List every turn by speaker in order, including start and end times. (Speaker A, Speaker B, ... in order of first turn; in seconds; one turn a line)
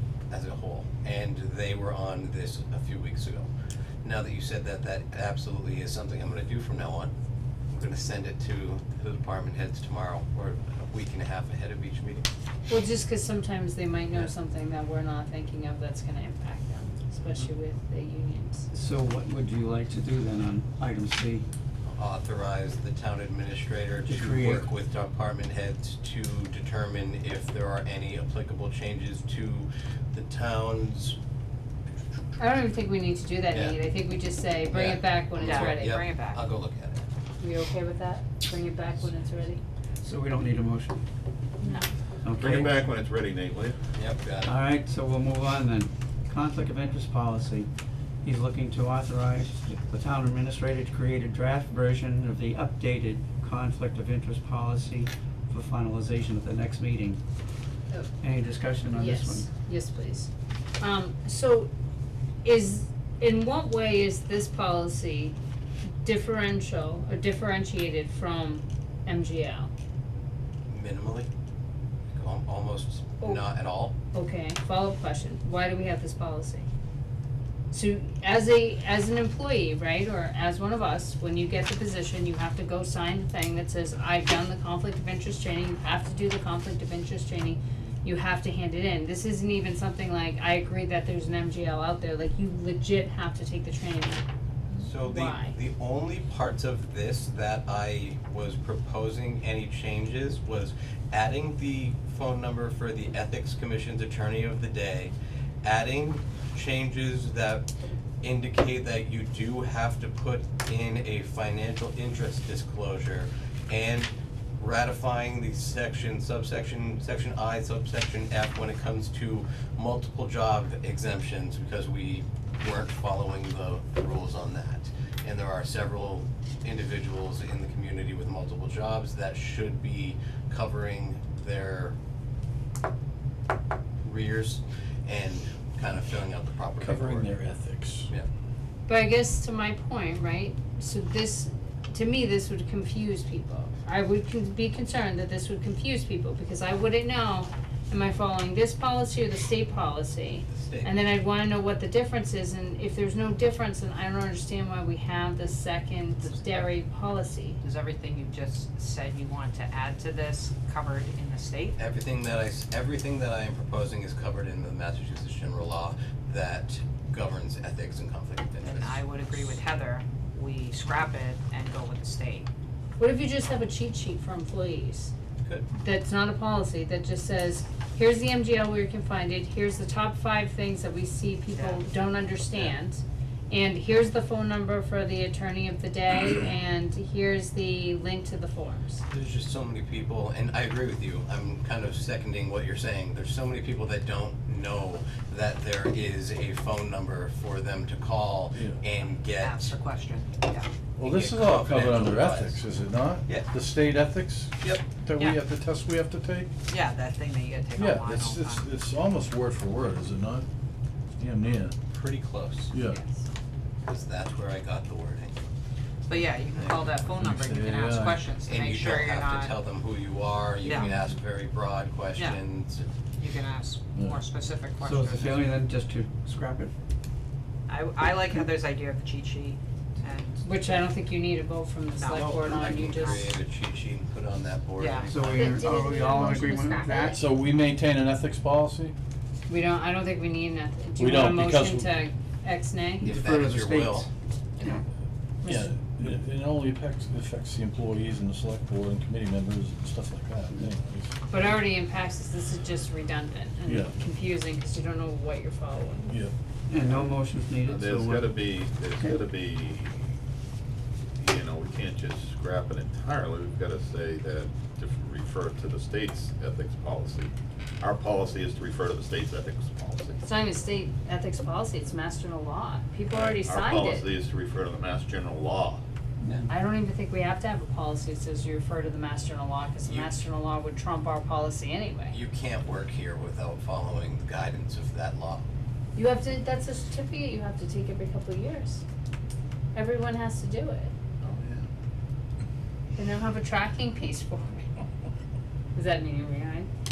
Speaker A: 0.3-3.5
Speaker A: 4.0-7.1
Speaker A: 7.7-12.3
Speaker B: 12.7-18.7
Speaker A: 17.2-17.5
Speaker C: 18.7-21.4
Speaker A: 21.9-31.2
Speaker C: 24.1-24.7
Speaker B: 32.4-36.0
Speaker A: 33.5-33.8
Speaker A: 34.7-37.0
Speaker D: 35.4-36.4
Speaker B: 37.4-39.6
Speaker C: 40.0-41.0
Speaker B: 41.6-41.9
Speaker C: 42.2-42.7
Speaker E: 42.3-43.8
Speaker A: 43.9-44.5
Speaker C: 44.4-47.7
Speaker C: 48.2-57.2
Speaker C: 58.2-59.5
Speaker B: 58.9-61.7
Speaker B: 62.4-65.3
Speaker B: 66.0-69.7
Speaker A: 70.7-71.3
Speaker A: 72.1-73.9
Speaker B: 74.1-76.7
Speaker B: 77.7-94.2
Speaker A: 94.8-105.1
Speaker B: 95.0-95.5
Speaker A: 105.6-107.7
Speaker A: 108.2-132.0
Speaker A: 134.0-137.3
Speaker F: 136.8-138.1
Speaker B: 138.9-157.6
Speaker A: 150.5-150.9
Speaker D: 156.2-156.7
Speaker D: 157.6-161.8
Speaker A: 161.8-169.6
Speaker D: 168.6-172.5
Speaker B: 173.0-175.1
Speaker B: 175.7-189.0
Speaker D: 181.5-181.8
Speaker A: 189.1-199.8
Speaker F: 198.5-198.8
Speaker D: 199.4-200.7
Speaker F: 201.0-206.5
Speaker A: 201.0-202.6
Speaker A: 203.2-203.5
Speaker D: 206.7-208.7
Speaker F: 207.8-210.5
Speaker F: 211.2-211.8
Speaker A: 211.9-212.8
Speaker F: 212.7-213.0
Speaker A: 213.8-215.4
Speaker D: 216.1-219.6
Speaker F: 217.2-218.2
Speaker A: 218.5-222.9
Speaker D: 220.6-220.9
Speaker D: 222.2-222.4
Speaker D: 223.2-225.4
Speaker C: 224.8-226.7
Speaker D: 227.7-230.7
Speaker B: 230.4-233.3
Speaker D: 232.0-233.3
Speaker A: 232.1-235.6
Speaker D: 234.8-235.2
Speaker C: 235.1-237.2
Speaker B: 235.3-237.2
Speaker F: 237.1-238.9
Speaker B: 239.5-243.1
Speaker F: 241.0-242.0
Speaker C: 243.0-244.1
Speaker A: 243.0-244.8
Speaker B: 245.4-245.7
Speaker F: 245.4-251.1
Speaker B: 251.3-256.2
Speaker F: 253.7-254.0
Speaker C: 256.7-258.4
Speaker E: 257.6-260.0
Speaker E: 261.2-270.2
Speaker B: 270.2-274.1
Speaker E: 273.1-275.8
Speaker B: 276.5-282.2
Speaker A: 279.9-280.2
Speaker A: 282.1-285.4
Speaker B: 285.9-288.8
Speaker B: 289.8-290.9
Speaker E: 291.2-291.7
Speaker B: 293.0-294.6
Speaker B: 295.8-296.7